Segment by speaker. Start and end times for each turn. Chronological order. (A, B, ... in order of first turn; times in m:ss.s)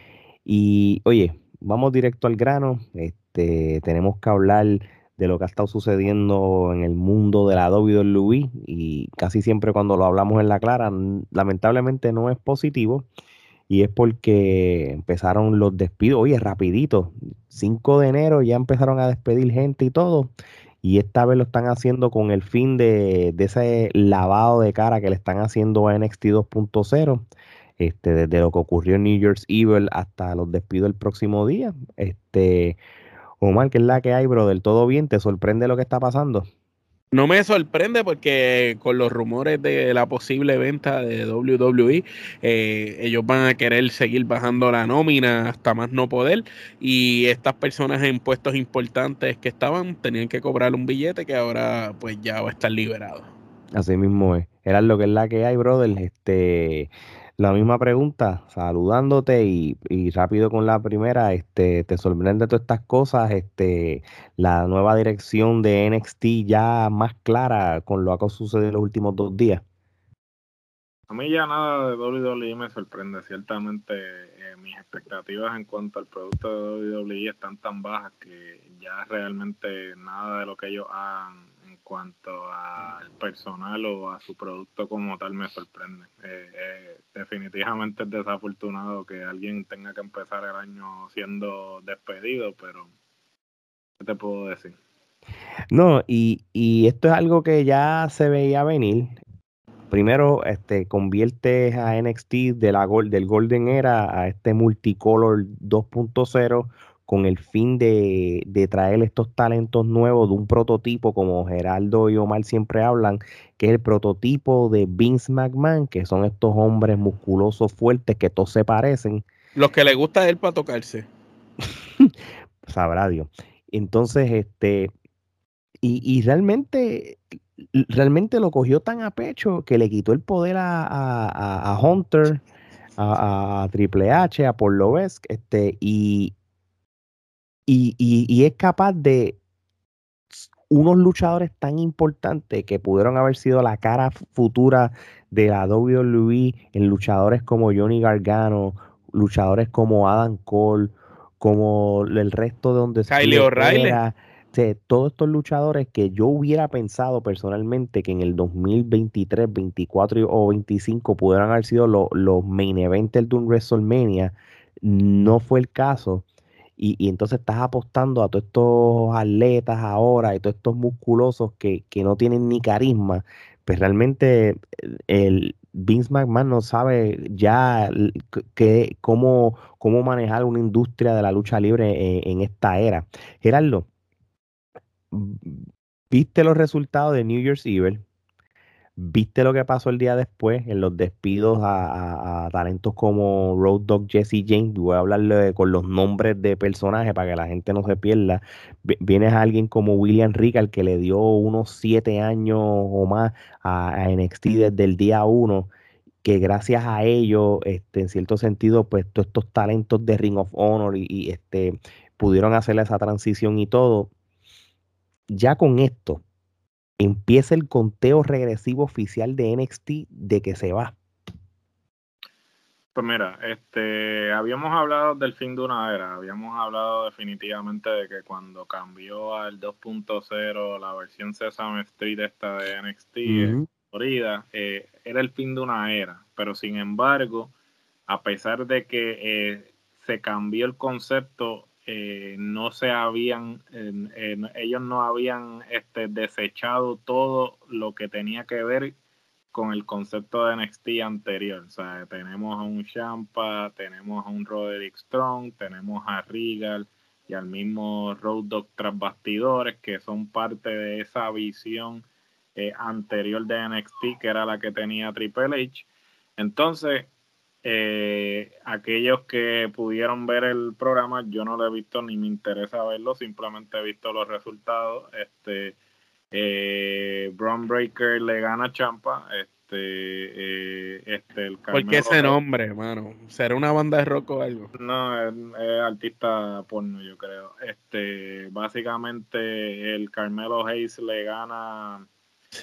0:00.4-0:13.0 A
0:13.7-0:20.3 A
0:20.8-0:27.3 A
0:27.8-0:32.8 A
0:33.4-0:36.5 A
0:37.1-0:53.3 B
0:53.8-1:09.6 A
1:11.1-1:32.9 C
1:34.0-1:34.7 C
1:35.7-1:39.2 A
1:39.9-1:59.2 A
1:59.6-2:01.0 B
2:02.0-2:04.9 A
2:05.8-2:07.2 A
2:07.7-2:12.4 A
2:13.0-2:16.3 A
2:17.7-2:19.4 A
2:20.4-2:46.2 A
2:33.1-2:34.0 B
2:46.8-3:03.9 A
3:05.1-3:08.0 A
3:09.0-3:25.7 A
3:26.2-3:34.1 A
3:35.3-3:36.2 A
3:37.0-3:41.0 A
3:42.9-3:57.5 C
3:53.3-3:53.7 A
3:58.1-4:08.9 C
4:09.5-4:27.1 C
4:27.6-4:35.8 C
4:36.3-4:42.4 C
4:41.7-4:44.7 B
4:44.8-4:52.0 C